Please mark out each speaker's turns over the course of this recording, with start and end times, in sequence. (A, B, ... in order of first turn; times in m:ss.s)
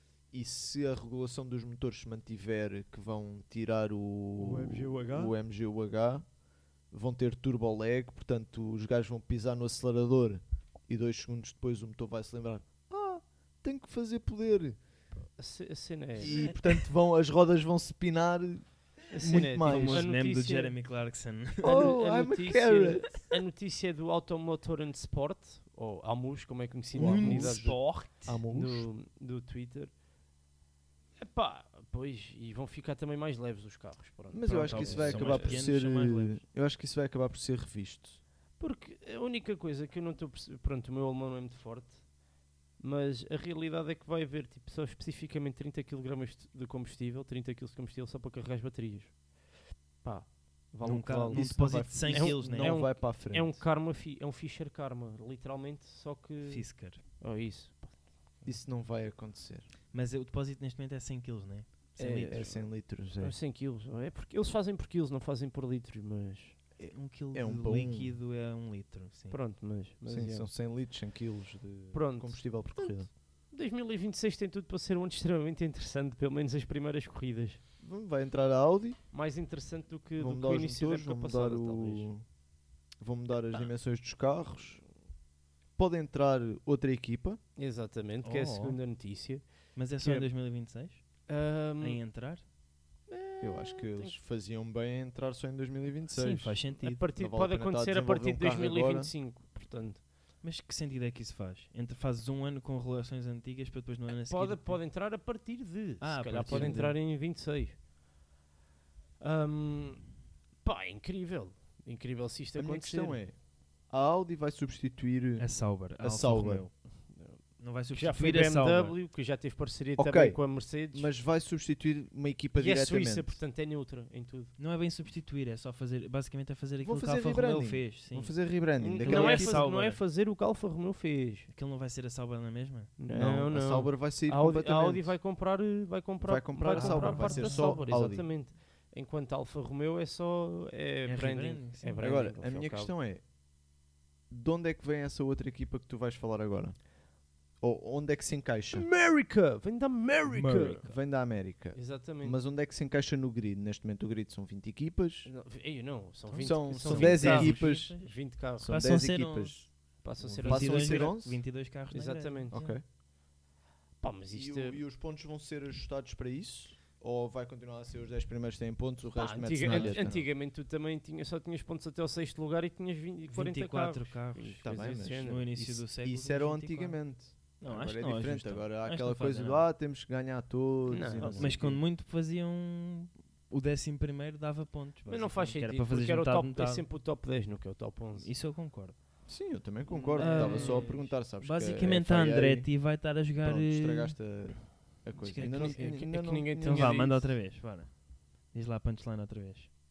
0:00.3-0:06.3 A
0:04.4-0:05.3 B
0:06.9-0:14.8 A
0:15.4-0:16.5 B
0:16.2-0:20.1 A
0:19.1-0:20.7 B
0:19.2-0:21.9 C
0:21.6-0:23.3 A
0:21.6-0:29.9 B
0:26.9-0:28.9 A
0:27.0-0:28.4 C
0:31.2-0:35.6 B
0:34.3-0:38.2 A
0:34.5-0:36.4 C
0:38.6-0:42.1 B
0:42.8-0:49.2 B
0:50.0-0:58.4 B
0:50.8-0:52.8 C
0:51.3-0:53.6 A
0:56.4-0:57.0 C
0:58.4-0:59.7 A
0:59.9-1:02.5 C
1:02.0-1:06.6 B
1:02.2-1:03.4 A
1:06.8-1:08.2 A
1:06.9-1:09.4 C
1:09.3-1:10.5 B
1:10.1-1:13.1 A
1:11.9-1:17.6 B
1:17.8-1:19.0 A
1:19.1-1:22.1 B
1:20.2-1:22.2 A
1:23.0-1:24.8 A
1:25.8-1:27.4 A
1:27.6-1:29.5 B
1:28.2-1:28.8 C
1:29.7-1:31.2 C
1:30.0-1:30.3 B
1:31.3-1:32.0 B
1:31.8-1:32.4 C
1:33.1-1:34.2 B
1:33.4-1:39.1 A
1:36.1-1:37.0 C
1:36.8-1:40.0 B
1:40.4-1:44.8 C
1:44.1-1:47.8 B
1:46.0-1:47.0 C
1:46.5-1:46.8 A
1:49.2-1:53.2 B
1:52.6-1:56.7 A
1:55.4-1:59.0 C
1:57.0-2:01.1 B
2:00.0-2:03.4 A
2:02.6-2:04.5 B
2:04.6-2:08.4 C
2:06.8-2:09.6 A
2:08.8-2:11.5 B
2:09.0-2:10.0 C
2:11.5-2:12.9 C
2:13.0-2:22.9 B
2:13.1-2:15.2 A
2:16.2-2:18.3 A
2:16.7-2:17.8 C
2:21.0-2:22.0 C
2:22.0-2:23.2 A
2:24.3-2:26.9 A
2:27.6-2:28.9 A
2:28.7-2:30.9 B
2:30.3-2:31.0 C
2:30.7-2:35.3 A
2:31.7-2:32.4 B
2:35.2-2:38.7 B
2:36.3-2:42.8 C
2:36.4-2:41.4 A
2:40.0-2:41.2 B
2:41.9-2:42.6 B
2:42.5-2:42.8 A
2:44.0-2:44.8 B
2:44.3-2:50.3 A
2:49.1-2:55.4 B
2:49.6-2:50.2 C
2:53.3-2:57.0 C
2:54.6-3:01.8 A
2:57.6-2:59.6 C
3:00.9-3:01.6 B
3:01.3-3:06.9 C
3:05.0-3:08.3 B
3:08.2-3:09.0 C
3:09.2-3:17.2 A
3:09.9-3:14.3 C
3:10.2-3:11.1 B
3:15.2-3:15.9 C
3:15.4-3:17.3 B
3:16.6-3:19.7 C